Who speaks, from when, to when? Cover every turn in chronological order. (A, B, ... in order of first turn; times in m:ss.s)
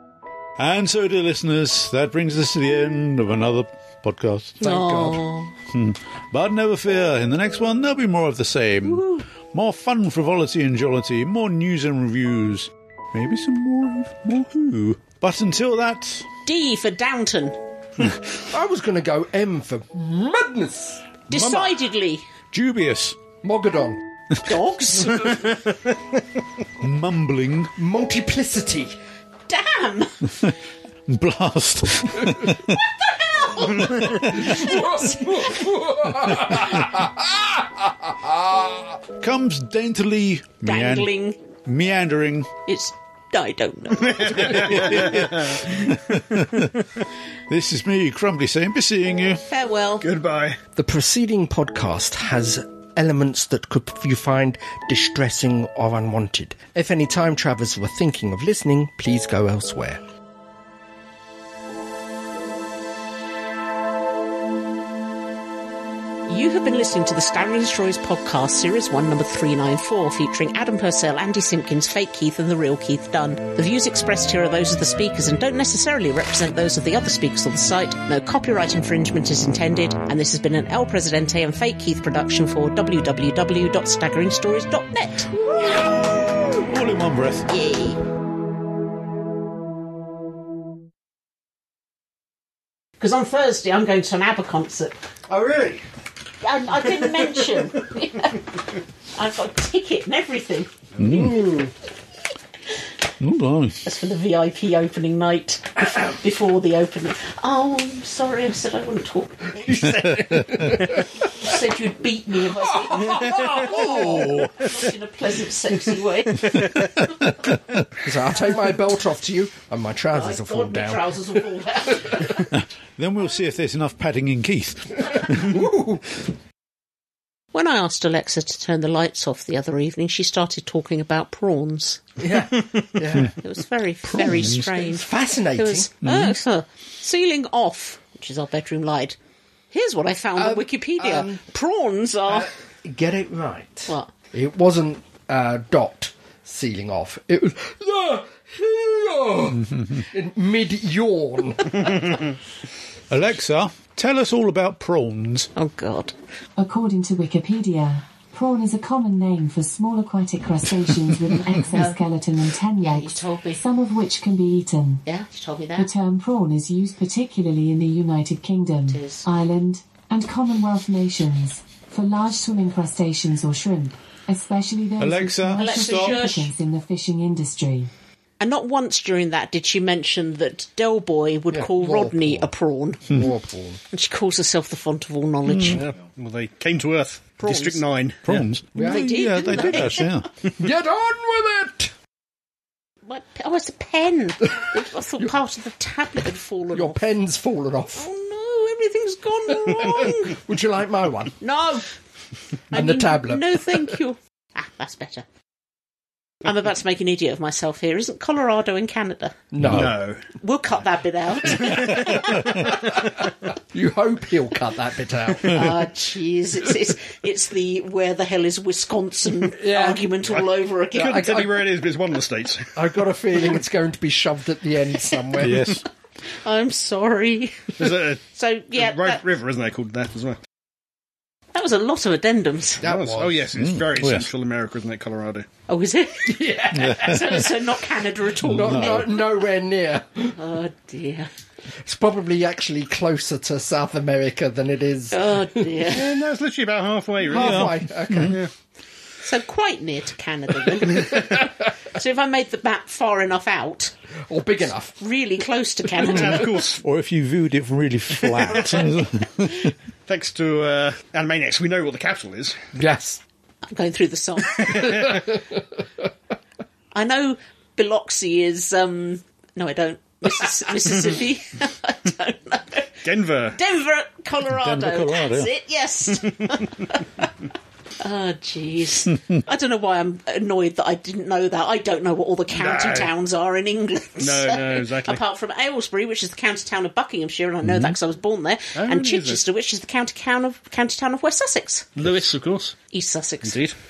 0:00.6-0:04.6 A
0:04.6-0:05.2 B
0:04.6-0:05.5 C
0:05.7-0:16.3 A
0:08.8-0:09.2 C
0:16.5-0:17.6 C
0:18.5-0:21.1 B
0:21.3-0:22.2 C
0:21.3-0:21.7 A
0:22.5-0:23.2 A
0:23.4-0:24.0 B
0:24.4-0:25.6 C
0:26.8-0:27.7 A
0:27.8-0:29.0 B
0:29.5-0:30.2 C
0:30.3-0:30.5 A
0:31.1-0:32.8 A
0:33.1-0:35.7 C
0:34.0-0:34.5 A
0:34.3-0:39.0 B
0:39.2-0:41.1 A
0:40.6-0:41.4 C
0:41.6-0:42.5 A
0:42.7-0:45.4 C
0:44.1-0:45.6 D
0:44.5-0:46.8 A
0:47.5-0:49.4 A
0:49.5-0:50.1 C
0:50.0-0:50.6 D
0:50.8-1:00.0 B
1:06.3-1:25.8 C
1:25.5-1:27.5 A
1:27.5-1:28.0 C
1:33.0-1:35.1 C
1:35.3-1:35.8 D
1:35.3-1:35.7 A
1:36.4-1:38.6 C
1:39.1-1:40.7 C
1:41.0-1:41.5 A
1:41.0-1:41.7 B
1:43.2-1:43.8 A
1:43.8-1:49.5 C
1:49.5-1:51.0 B
1:49.7-1:50.9 A
1:51.3-1:56.7 C
1:52.7-1:54.3 B
1:54.0-1:54.6 A
1:56.6-1:57.8 A
1:58.0-2:01.2 B
2:00.1-2:02.6 C
2:02.5-2:05.4 A
2:05.3-2:06.2 B
2:07.5-2:12.0 C
2:12.2-2:13.4 B
2:13.4-2:19.2 C
2:14.1-2:14.7 A
2:14.7-2:15.9 B
2:16.0-2:16.4 A
2:19.7-2:22.5 C
2:20.4-2:21.4 B
2:22.3-2:32.2 B
2:33.1-2:35.5 A
2:35.6-2:36.1 C
2:36.6-2:45.0 E
2:41.6-2:42.0 C
2:42.8-2:43.6 C
2:45.0-2:45.9 C
2:45.8-2:57.9 E
2:48.9-2:49.2 C
2:55.0-2:56.3 A
2:55.6-2:56.5 C
2:58.4-3:03.1 C
3:01.5-3:02.5 B
3:03.1-3:03.8 B
3:03.9-3:05.8 C
3:05.5-3:05.8 A
3:05.8-3:08.4 D
3:07.4-3:07.8 C
3:08.3-3:10.3 A
3:08.8-3:09.1 B
3:08.8-3:10.2 C
3:10.6-3:11.9 B
3:13.1-3:17.1 C
3:16.7-3:18.1 B
3:18.0-3:20.4 C
3:19.8-3:21.4 B
3:21.4-3:21.9 C
3:22.7-3:25.2 C
3:22.7-3:23.6 B
3:26.4-3:29.4 C
3:29.5-3:29.9 B
3:29.6-3:29.9 A
3:29.6-3:30.2 D
3:30.4-3:32.7 C
3:33.7-3:35.8 B
3:35.4-3:41.4 C
3:39.6-3:40.0 B
3:40.3-3:43.0 D
3:41.1-3:41.7 B
3:42.8-3:45.8 B
3:45.4-3:45.8 A
3:46.4-3:49.2 C
3:47.8-3:48.2 D
3:48.7-3:50.4 D
3:51.6-3:52.8 C
3:52.8-3:53.4 B
3:52.8-3:55.5 D
3:53.5-3:54.3 A
3:55.7-3:59.2 C
3:56.3-3:57.5 B
3:56.8-3:57.4 A
3:58.4-4:00.4 B
3:58.6-3:59.2 A
4:00.4-4:01.3 C
4:01.8-4:05.9 B
4:05.1-4:06.1 C
4:05.9-4:08.5 D
4:07.3-4:08.4 B
4:07.3-4:08.4 A
4:09.2-4:13.9 C
4:10.9-4:11.4 B
4:14.3-4:15.0 B
4:15.0-4:16.6 C
4:16.0-4:16.8 D
4:16.8-4:19.7 A
4:18.3-4:18.9 D
4:20.1-4:22.6 D
4:22.8-4:23.2 B
4:23.7-4:25.1 C
4:24.7-4:25.6 B
4:24.8-4:25.1 D
4:26.9-4:33.0 C
4:33.0-4:33.6 D
4:33.6-4:37.3 C
4:34.5-4:35.5 A
4:38.0-4:51.9 C
4:42.6-4:43.1 D
4:44.2-4:45.2 D
4:47.6-4:48.0 A
4:48.8-4:49.4 D
4:52.0-4:52.8 D
4:52.9-4:53.6 C
4:53.4-4:53.7 D